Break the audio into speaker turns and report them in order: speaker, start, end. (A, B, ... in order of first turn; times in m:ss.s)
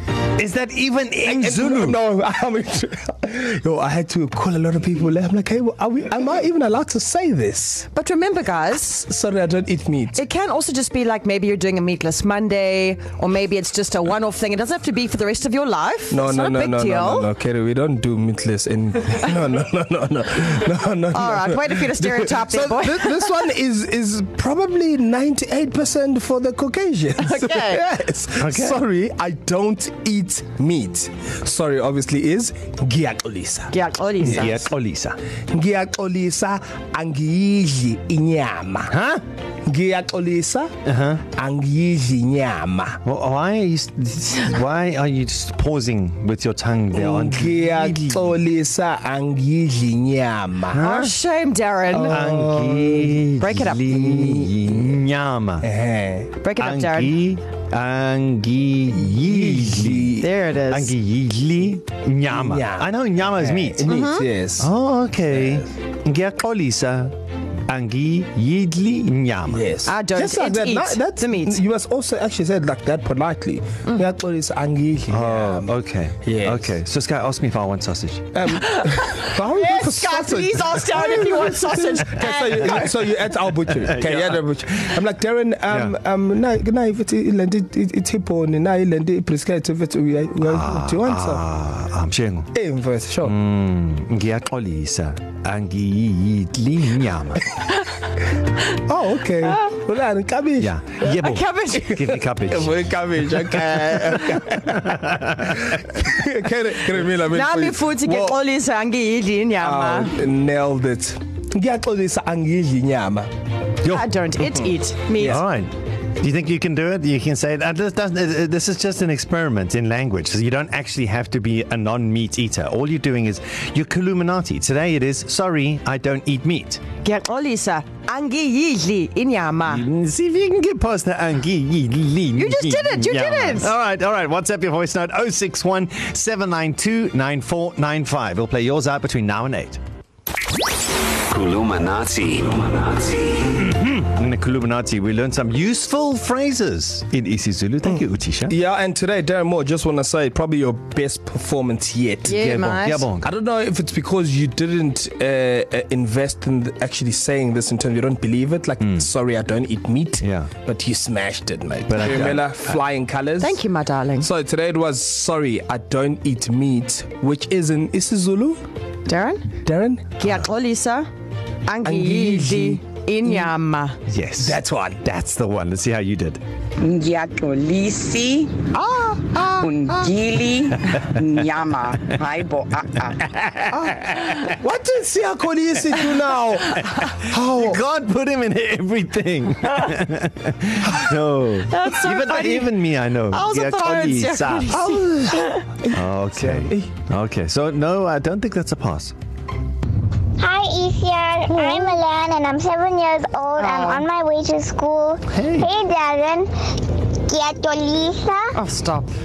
0:00.4-0:02.0 A
0:01.2-0:07.9 B
0:07.9-0:09.1 C
0:09.0-0:10.2 B
0:10.1-0:17.3 C
0:16.1-0:34.6 B
0:21.1-0:23.4 C
0:27.2-0:27.8 C
0:28.4-0:28.8 A
0:33.7-0:34.6 C
0:34.2-0:35.2 A
0:35.5-0:38.9 B
0:38.9-0:39.2 A
0:39.6-0:40.7 B
0:40.8-0:41.2 A
0:41.4-0:43.0 B
0:43.0-0:48.4 A
0:46.9-0:50.8 B
0:50.7-0:51.2 A
0:50.8-0:52.2 C
0:51.9-0:53.3 B
0:51.9-0:55.7 A
0:53.4-0:54.0 C
0:53.9-0:54.9 B
0:55.6-0:56.3 B
0:56.4-0:57.2 C
0:56.6-1:04.0 A
0:59.1-1:00.3 B
1:00.2-1:00.9 C
1:02.3-1:04.7 B
1:03.9-1:04.3 C
1:04.6-1:07.2 A
1:05.3-1:05.6 B
1:07.7-1:09.7 A
1:09.5-1:15.7 B
1:09.8-1:11.6 C
1:15.1-1:18.4 A
1:16.2-1:16.8 B
1:18.3-1:31.4 B
1:18.6-1:22.9 C
1:23.7-1:24.4 A
1:30.4-1:32.5 A
1:32.5-1:33.4 B
1:33.2-1:37.5 A
1:38.7-1:40.8 B
1:40.6-1:42.8 A
1:41.0-1:41.9 C
1:41.6-1:48.4 B
1:44.7-1:45.7 A
1:47.3-1:50.2 C
1:49.6-1:53.3 B
1:53.8-2:06.8 A
1:53.8-1:55.4 C
2:07.0-2:09.8 C
2:09.6-2:19.8 A
2:12.4-2:13.7 C
2:21.3-2:23.5 D
2:23.6-2:28.5 A
2:27.8-2:32.5 B
2:32.2-2:33.1 C
2:32.3-2:33.3 A
2:33.2-2:43.6 B
2:40.2-2:40.5 A
2:41.9-2:42.7 A
2:43.4-2:44.3 C
2:44.2-2:48.6 B
2:49.1-2:49.5 C
2:49.6-2:50.1 B
2:50.2-2:51.1 C
2:51.7-2:54.0 C
2:51.8-2:53.5 B
2:54.1-2:56.4 A
2:54.4-2:55.0 B
2:56.8-2:58.7 E
2:58.9-2:59.2 C
2:59.4-3:00.1 A
2:59.5-3:03.3 E
3:00.8-3:01.5 A
3:03.2-3:04.4 A
3:04.5-3:07.8 B
3:07.3-3:14.9 A
3:11.7-3:12.7 C
3:13.3-3:15.6 C
3:14.7-3:16.9 B
3:15.9-3:19.2 A
3:20.4-3:28.6 F
3:21.5-3:22.0 C
3:23.6-3:24.0 C
3:25.3-3:25.7 A
3:28.5-3:29.1 C